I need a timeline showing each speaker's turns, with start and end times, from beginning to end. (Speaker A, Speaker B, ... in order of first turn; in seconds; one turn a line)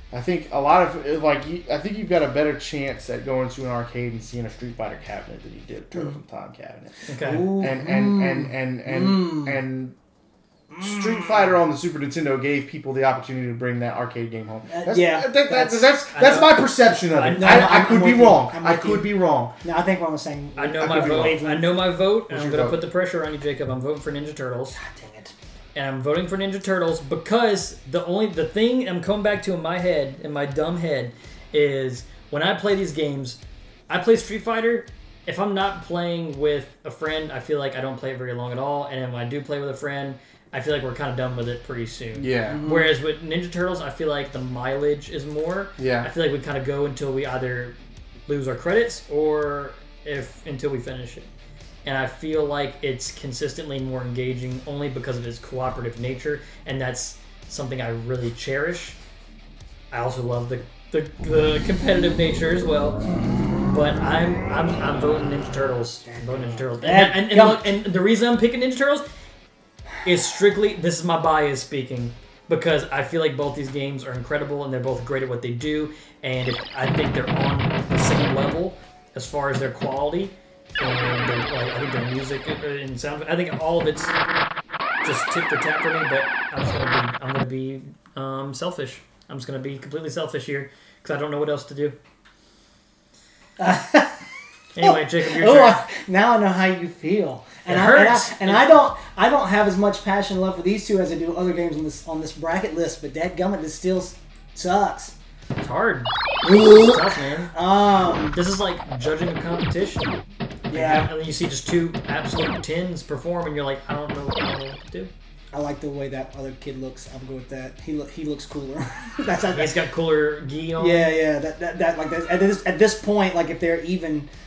Speaker A: 0.1-9.9
Speaker B: 7.1-7.5
Speaker C: 7.2-9.6
Speaker C: 10.7-11.6
Speaker A: 10.8-19.5
Speaker C: 14.7-16.4
Speaker B: 16.1-16.6
Speaker B: 17.1-17.8
Speaker C: 17.3-21.8
Speaker B: 20.6-24.8
Speaker A: 20.8-21.4
Speaker A: 22.3-22.8
Speaker C: 24.8-25.3
Speaker B: 25.7-33.4
Speaker B: 33.9-47.8
Speaker A: 42.1-42.6
Speaker C: 42.5-42.9
Speaker A: 45.8-46.1
Speaker B: 48.3-51.3
Speaker B: 51.8-59.0
Speaker B: 59.9-63.0
Speaker C: 63.0-63.6
Speaker B: 63.6-69.0
Speaker C: 66.1-67.8
Speaker B: 70.0-84.2
Speaker B: 85.0-92.0
Speaker C: 93.6-94.2
Speaker B: 94.7-95.8
Speaker C: 94.8-105.1
Speaker B: 97.7-98.8
Speaker B: 105.6-107.5
Speaker C: 106.4-108.4
Speaker B: 108.3-110.2
Speaker C: 110.7-111.1
Speaker B: 110.7-115.1
Speaker C: 115.5-119.8
Speaker B: 119.5-121.2
Speaker C: 120.8-124.3